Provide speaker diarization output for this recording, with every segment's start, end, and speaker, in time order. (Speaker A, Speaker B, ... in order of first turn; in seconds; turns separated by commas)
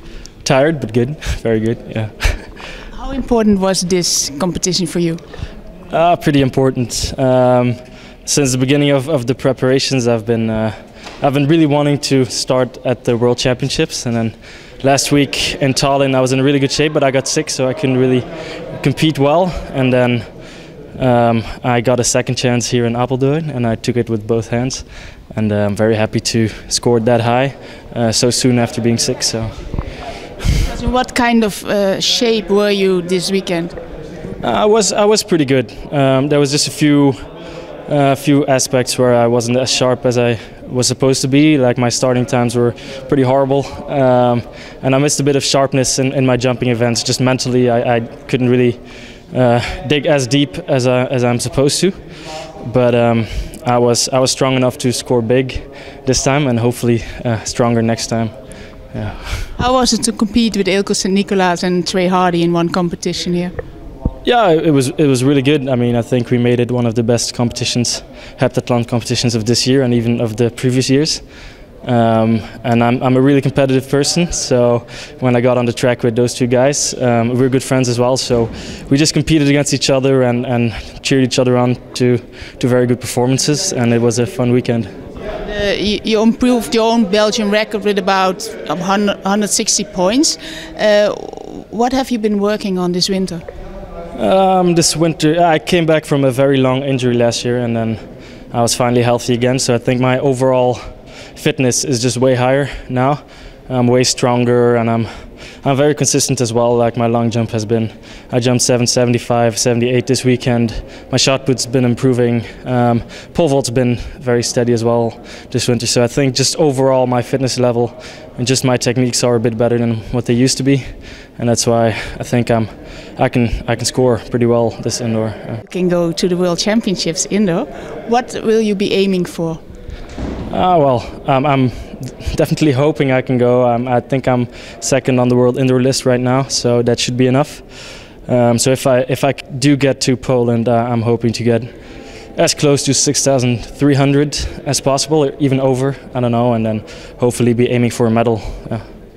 Speaker A: 0.4-2.5, Speaker B: 2.9-5.2, Speaker A: 5.9-20.3, Speaker A: 20.9-29.5, Speaker B: 30.6-33.7, Speaker A: 34.4-37.2, Speaker A: 37.9-52.0, Speaker A: 52.6-58.3, Speaker A: 58.9-59.5, Speaker B: 59.6-63.5, Speaker A: 64.2-71.2, Speaker A: 71.8-84.9, Speaker B: 85.4-93.4, Speaker A: 94.1-98.0, Speaker A: 98.5-100.8, Speaker A: 101.3-105.1, Speaker A: 105.6-125.6, Speaker B: 125.6-129.6, Speaker A: 130.5-141.7, Speaker A: 142.3-148.8